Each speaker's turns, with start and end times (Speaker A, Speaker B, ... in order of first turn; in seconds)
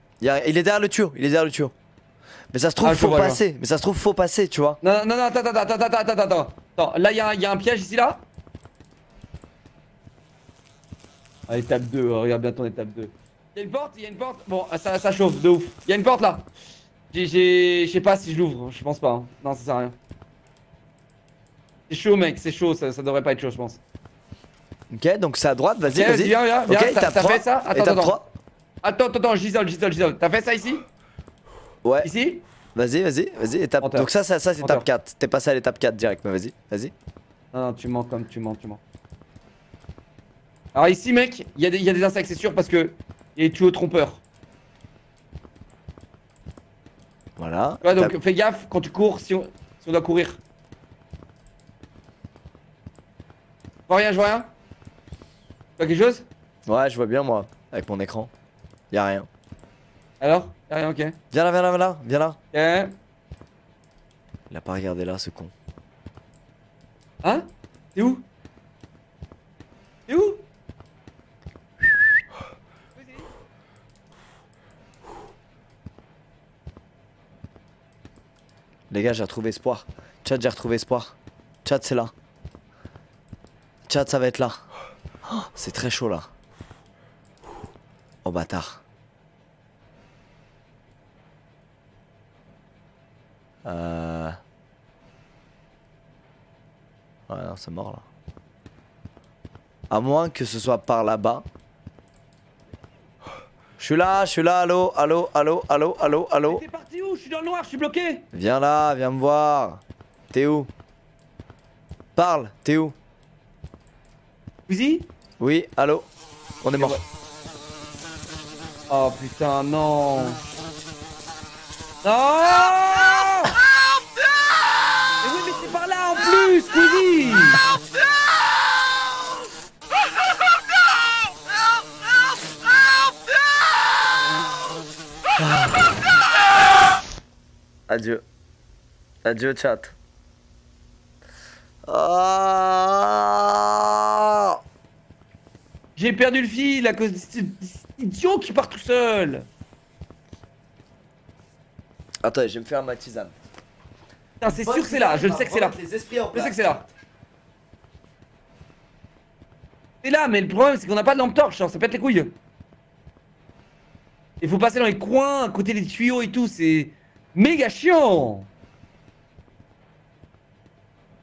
Speaker A: 0.2-1.7, 2.5-4.8, 24.9-28.3, 31.8-32.1, 32.7-36.9, 47.4-48.1, 56.6-58.3, 58.9-59.3, 61.3-62.4, 64.5-65.5, 78.9-82.1, 83.9-84.6, 85.2-86.3, 88.2-88.8, 93.6-94.4, 97.3-98.0, 99.9-101.4, 103.8-106.6, 108.3-110.7, 112.2-113.0, 115.4-116.0, 116.6-117.0, 135.4-135.9, 137.9-138.2, 139.2-139.9, 141.8-144.6, 152.2-153.3, 154.4-156.5
Speaker B: 2.8-3.4, 4.8-8.2, 11.5-16.5, 17.1-20.0, 21.9-23.8, 25.9-28.2, 28.8-30.9, 32.0-32.4, 33.8-34.1, 37.5-38.8, 40.7-44.2, 47.8-50.4, 53.9-54.5, 55.8-56.3, 60.2-61.2, 62.5-63.0, 67.2-68.2, 70.1-70.5, 72.9-73.3, 106.5-108.2, 114.7-115.1, 116.8-117.0, 118.9-120.4, 122.0-123.6, 125.2-127.6, 145.9-149.5, 154.4-155.8, 156.3-156.9, 160.0-162.3, 164.4-168.5